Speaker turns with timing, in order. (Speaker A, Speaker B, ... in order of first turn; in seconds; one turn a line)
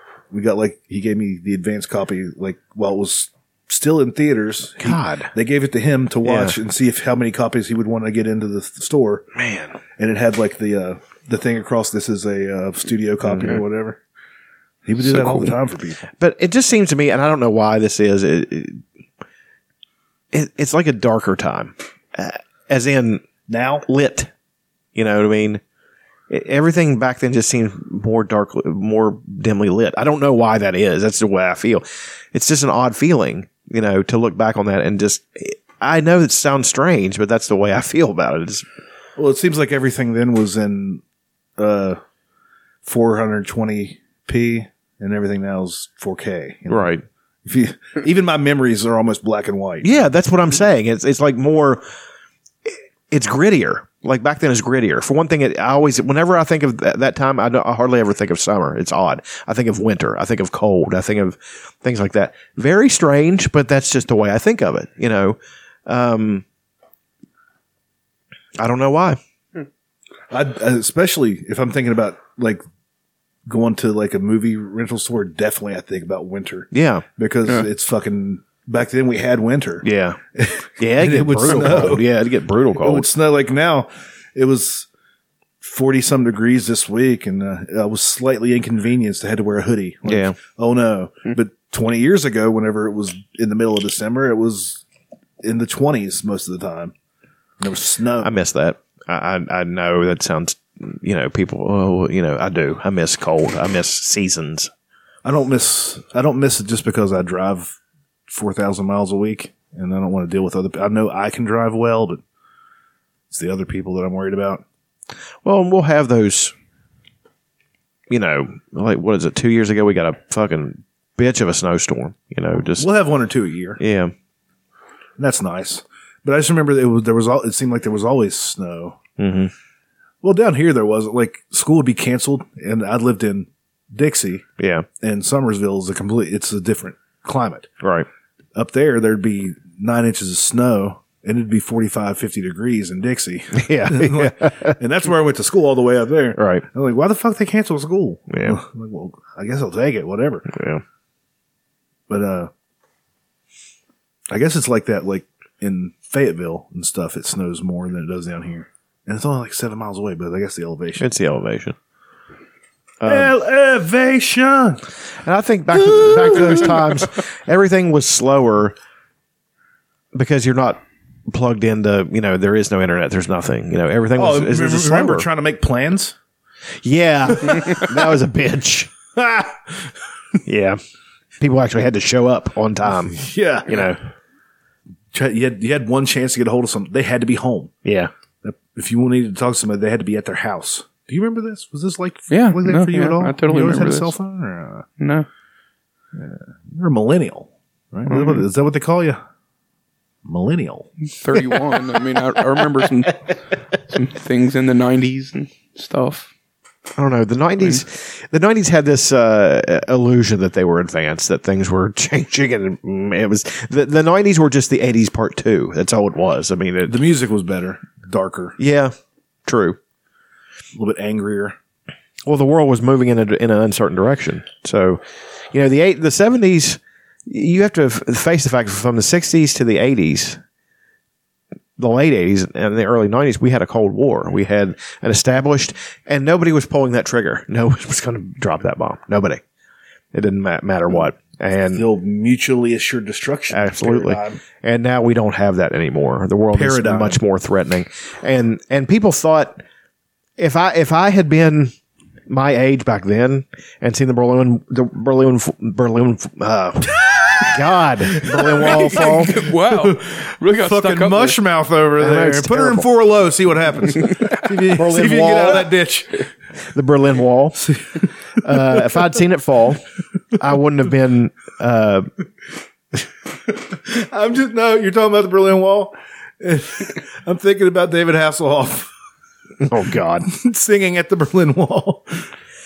Speaker A: 0.3-9.3
Speaker B: 4.8-5.3
Speaker B: 6.2-6.6
Speaker B: 9.3-9.8
Speaker A: 10.0-14.0
Speaker B: 13.3-13.6
Speaker A: 14.9-16.1
Speaker B: 15.0-15.6
Speaker B: 16.2-18.8
Speaker B: 20.3-23.3
Speaker A: 23.5-23.9
Speaker B: 23.9-24.3
Speaker B: 24.9-25.6
Speaker B: 26.3-38.6
Speaker A: 39.2-41.0
Speaker A: 41.6-42.0
Speaker A: 42.9-50.1
Speaker B: 46.7-47.0
Speaker B: 49.8-51.9
Speaker B: 52.7-66.4
Speaker B: 68.6-69.2
Speaker A: 70.3-72.6
Speaker A: 73.5-82.1
Speaker B: 76.7-77.0
Speaker B: 79.8-80.2
Speaker B: 80.8-83.1
Speaker A: 82.8-84.9
Speaker A: 85.6-94.8
Speaker B: 90.1-90.4
Speaker A: 95.4-96.9
Speaker A: 97.6-98.3
Speaker B: 98.2-104.7
Speaker A: 105.2-107.8
Speaker A: 108.3-112.2
Speaker A: 113.3-114.6
Speaker B: 115.4-116.5
Speaker B: 118.1-122.9
Speaker A: 122.8-123.8
Speaker B: 123.8-124.1
Speaker A: 125.2-129.0
Speaker B: 129.2-129.5
Speaker A: 130.2-134.5
Speaker B: 134.6-134.9
Speaker A: 135.0-137.7
Speaker B: 137.8-138.1
Speaker A: 138.6-150.5
Speaker B: 143.5-144.8
Speaker B: 146.4-146.7
Speaker B: 148.3-148.6
Speaker B: 150.5-150.8
Speaker A: 152.1-152.5
Speaker A: 154.3-161.1
Speaker B: 161.0-161.8
Speaker B: 163.0-163.3
Speaker A: 163.0-164.8
Speaker B: 165.2-168.8
Speaker A: 165.8-166.8
Speaker B: 170.1-175.3
Speaker A: 174.2-176.2
Speaker B: 176.8-178.9
Speaker A: 177.5-177.8
Speaker A: 179.2-179.9
Speaker B: 180.4-180.8
Speaker B: 181.4-184.0
Speaker A: 183.2-183.8
Speaker A: 185.1-187.7
Speaker B: 187.8-188.1
Speaker A: 188.4-194.9
Speaker C: 192.3-194.2
Speaker C: 195.0-195.3
Speaker A: 196.2-199.2
Speaker C: 198.1-198.4
Speaker A: 200.2-200.9
Speaker C: 201.2-203.3
Speaker C: 203.9-206.3
Speaker B: 207.0-217.0
Speaker A: 216.9-218.6
Speaker B: 218.6-218.9
Speaker B: 219.5-219.8
Speaker A: 220.8-221.6
Speaker B: 222.3-230.4
Speaker B: 231.8-239.4
Speaker B: 240.1-241.9
Speaker A: 241.7-244.4
Speaker B: 243.5-249.6
Speaker A: 246.5-247.2
Speaker B: 250.4-251.8
Speaker B: 252.3-256.9
Speaker B: 257.5-259.4
Speaker A: 258.3-266.2
Speaker C: 258.6-261.4
Speaker B: 262.0-262.9
Speaker B: 264.7-265.7
Speaker B: 266.7-267.6
Speaker B: 268.4-269.8
Speaker B: 270.4-272.1
Speaker A: 273.7-278.9
Speaker B: 279.6-280.3
Speaker A: 280.3-282.3